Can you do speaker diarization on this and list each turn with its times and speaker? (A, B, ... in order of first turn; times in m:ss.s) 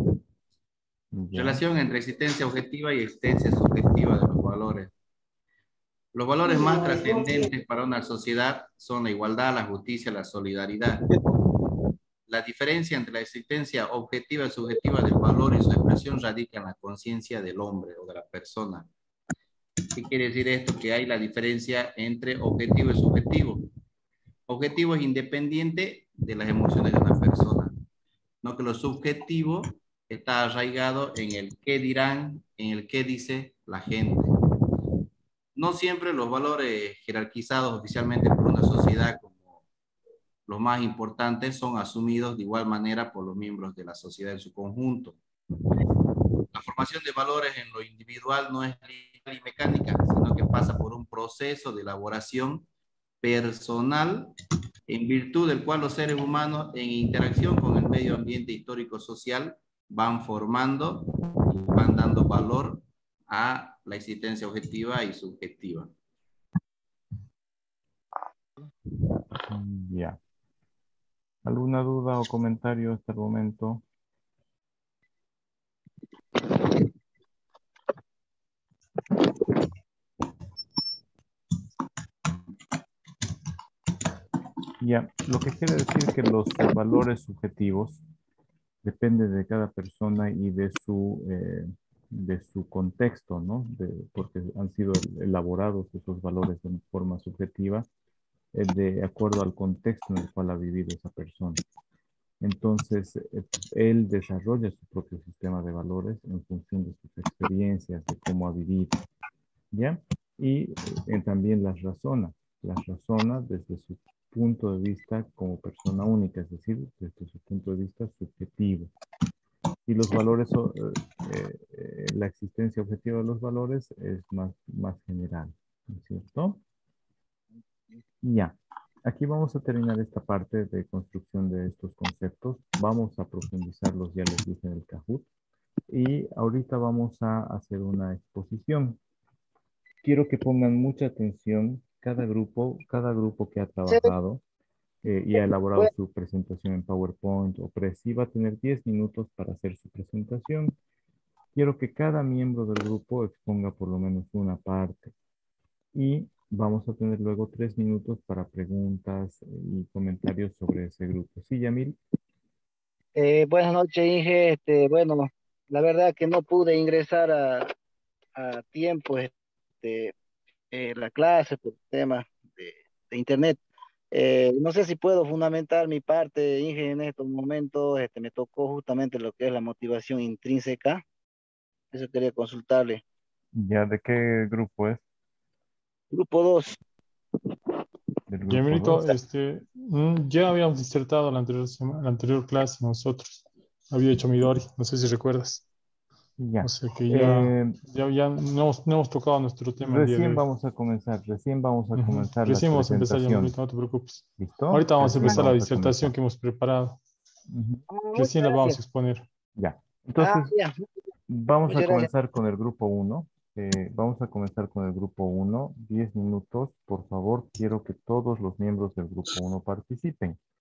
0:01.1-0:01.6 A
0:01.3-0:04.9 B
0:06.1-0:11.1 B
0:12.3-0:18.9 B
0:19.9-0:23.6 B
0:24.5-0:27.7 B
0:28.4-0:34.4 B
0:35.6-0:39.6 B
0:40.5-0:45.2 B
0:46.5-0:52.6 B
0:53.2-0:54.3 B
0:54.9-1:05.9 B
1:09.5-1:10.2 A
1:11.4-1:13.8 A
1:24.8-1:28.0 A
1:28.8-1:37.9 A
1:38.5-1:41.6 A
1:42.4-1:49.0 A
1:49.7-1:58.9 A
1:59.9-2:06.6 A
2:07.5-2:08.0 C
2:08.2-2:15.3 A
2:15.9-2:19.0 A
2:20.0-2:24.4 A
2:23.9-2:24.1 C
2:25.0-2:30.8 A
2:31.6-2:35.1 A
2:35.9-2:42.0 A
2:43.1-2:47.7 C
2:48.4-2:50.1 C
2:50.7-3:01.0 C
3:01.9-3:03.0 C
3:03.5-3:05.0 A
3:06.1-3:06.8 C
3:08.3-3:09.1 A
3:08.5-3:15.6 D
3:16.4-3:17.8 A
3:16.6-3:20.4 D
3:19.8-3:23.6 A
3:21.9-3:27.0 D
3:24.4-3:26.1 A
3:27.5-3:27.8 A
3:27.9-3:28.8 C
3:28.1-3:29.3 D
3:29.6-3:30.5 A
3:30.2-3:30.8 C
3:31.3-3:40.4 A
3:31.7-3:32.1 C